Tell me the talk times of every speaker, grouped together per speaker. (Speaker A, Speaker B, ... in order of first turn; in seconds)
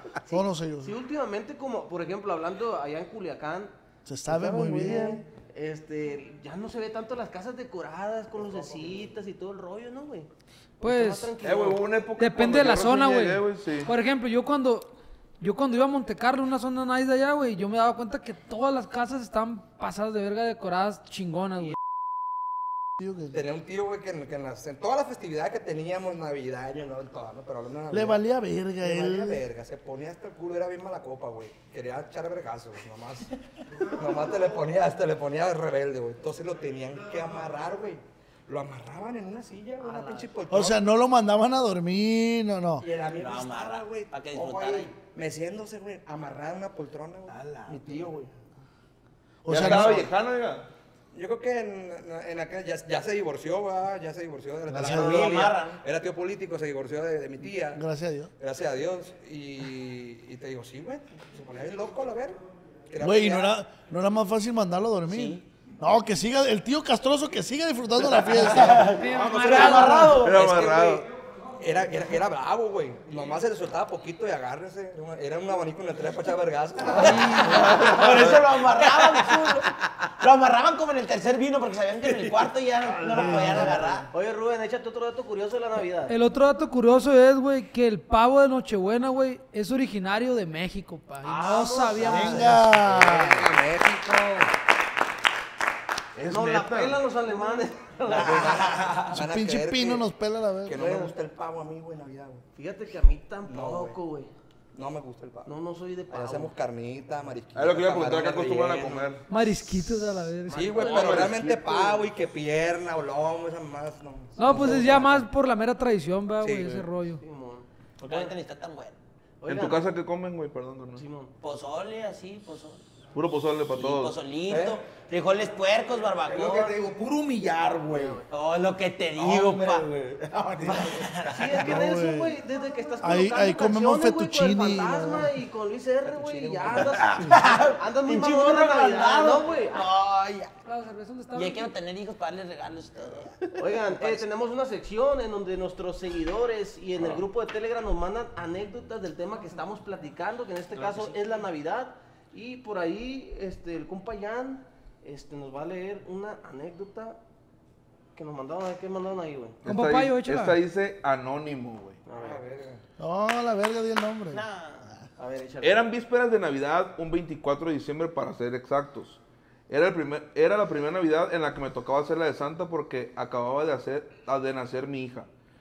Speaker A: 0.3-0.9, 4.1-5.2, 23.0-23.4, 27.9-29.4, 40.5-42.9, 49.5-50.1, 54.7-55.4, 57.7-58.3, 63.0-69.0, 83.0-83.9, 92.0-93.5, 99.1-101.1, 131.6-132.4, 133.0-135.3, 163.0-165.0
Speaker B: 0.3-3.7, 5.5-10.3, 10.8-11.9, 39.9-40.3, 69.5-70.3, 84.1-86.1, 91.2-92.6, 96.3-98.8, 102.6-104.3, 105.5-106.5, 110.5-111.6, 117.2-118.3, 119.4-119.9, 121.0-121.3, 127.9-128.2, 131.3-139.8, 143.6-157.2, 158.2-159.6, 162.1-162.4, 165.2-165.9
Speaker C: 4.3-5.0, 11.4-13.9, 47.3-48.1, 49.5-50.7, 70.1-71.1, 96.2-97.0, 107.5-109.2, 110.9-111.5, 119.5-121.0, 123.2-124.2, 159.6-162.0, 165.6-169.2, 169.7-175.3
Speaker D: 10.8-11.3, 12.2-21.8, 68.9-70.2, 77.0-77.6, 86.1-92.5, 109.3-110.9, 114.4-117.2, 140.7-141.7, 159.7-160.6
Speaker E: 23.3-28.2, 28.8-33.3, 33.9-40.8, 42.8-48.3, 49.5-50.1, 51.1-57.8, 58.4-62.4, 62.9-63.5, 68.6-71.1, 71.6-79.6, 92.5-94.5, 98.0-100.0, 100.7-102.4, 103.5-104.0, 104.8-105.5, 106.1-109.1, 110.5-115.2, 116.4-116.7, 124.5-124.8, 136.2-137.0, 162.1-162.8
Speaker F: 43.1-44.9, 54.8-55.8, 69.4-70.3, 77.0-84.1, 98.1-98.9, 118.0-119.0, 121.4-122.8, 123.7-126.8, 128.3-129.9, 130.7-131.6, 137.2-140.5, 141.3-144.2, 164.3-164.9
Speaker G: 126.2-128.2, 129.2-131.6